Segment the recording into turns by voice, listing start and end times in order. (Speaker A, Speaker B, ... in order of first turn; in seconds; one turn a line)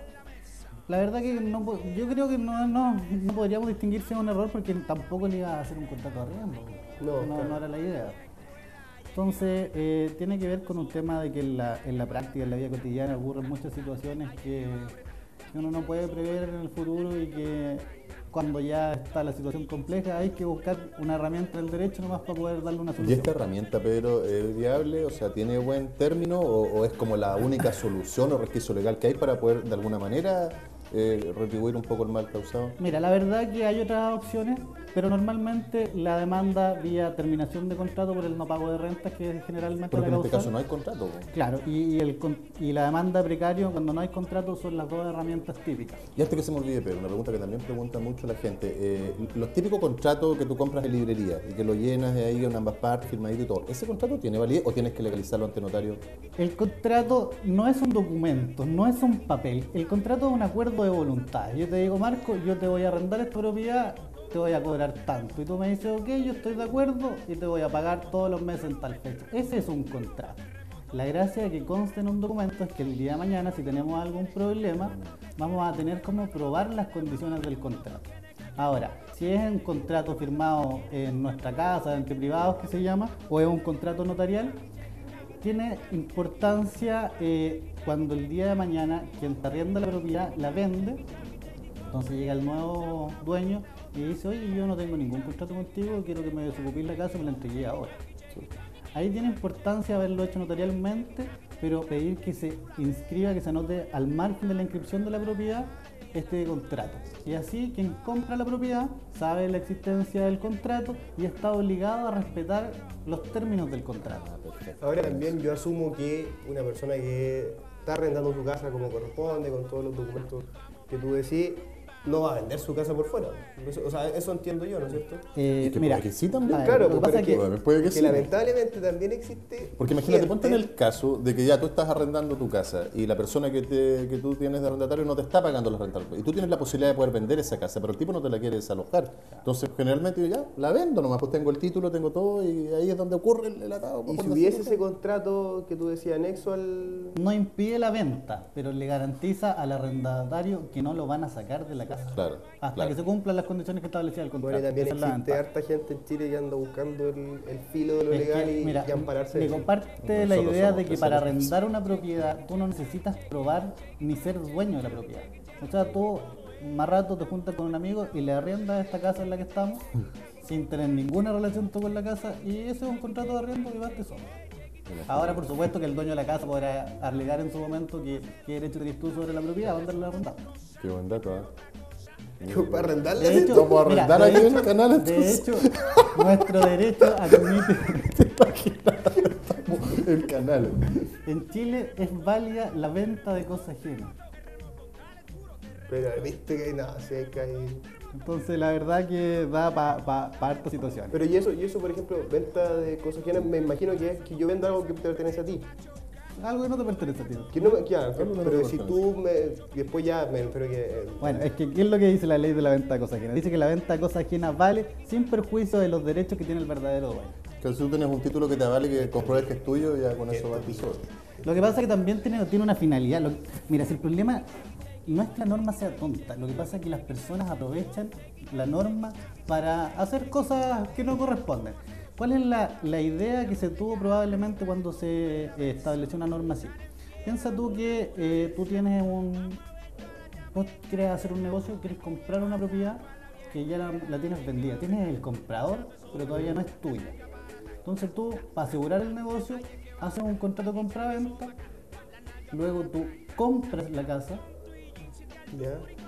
Speaker A: 0.9-8.2
Speaker B: 7.0-7.6
Speaker A: 9.1-14.9
Speaker A: 15.5-23.4
Speaker C: 23.0-32.8
Speaker A: 32.8-40.5
Speaker C: 39.9-41.3
Speaker A: 41.3-46.0
Speaker C: 46.2-56.0
Speaker A: 56.4-84.6
Speaker A: 85.4-91.0
Speaker A: 91.9-98.0
Speaker A: 99.0-114.2
Speaker C: 114.1-115.3
Speaker B: 114.8-125.2
Speaker A: 125.3-127.5
Speaker C: 125.6-128.3
Speaker B: 126.5-130.7
Speaker C: 129.8-144.8
Speaker B: 144.1-147.2
Speaker A: 147.2-155.4
Speaker C: 152.1-153.0
Speaker B: 154.4-159.7
Speaker A: 158.1-169.9
Speaker C: 160.0-161.6
Speaker A: 170.4-174.3
Speaker C: 174.9-175.5
Speaker A: 175.1-180.5
Speaker C: 180.8-181.5
Speaker C: 182.4-191.0
Speaker B: 182.5-183.9
Speaker A: 183.2-188.2
Speaker A: 191.2-194.2
Speaker B: 195.9-197.8
Speaker A: 198.1-201.2
Speaker B: 201.1-205.7
Speaker A: 206.4-207.7
Speaker B: 207.5-211.5
Speaker C: 208.1-209.0
Speaker A: 211.2-217.4
Speaker C: 217.6-221.1
Speaker B: 219.1-219.5
Speaker B: 220.3-220.9
Speaker B: 221.4-221.7
Speaker A: 221.4-224.4
Speaker A: 225.1-239.6
Speaker A: 240.5-247.2
Speaker A: 247.8-251.5
Speaker A: 252.5-254.4
Speaker B: 255.5-255.9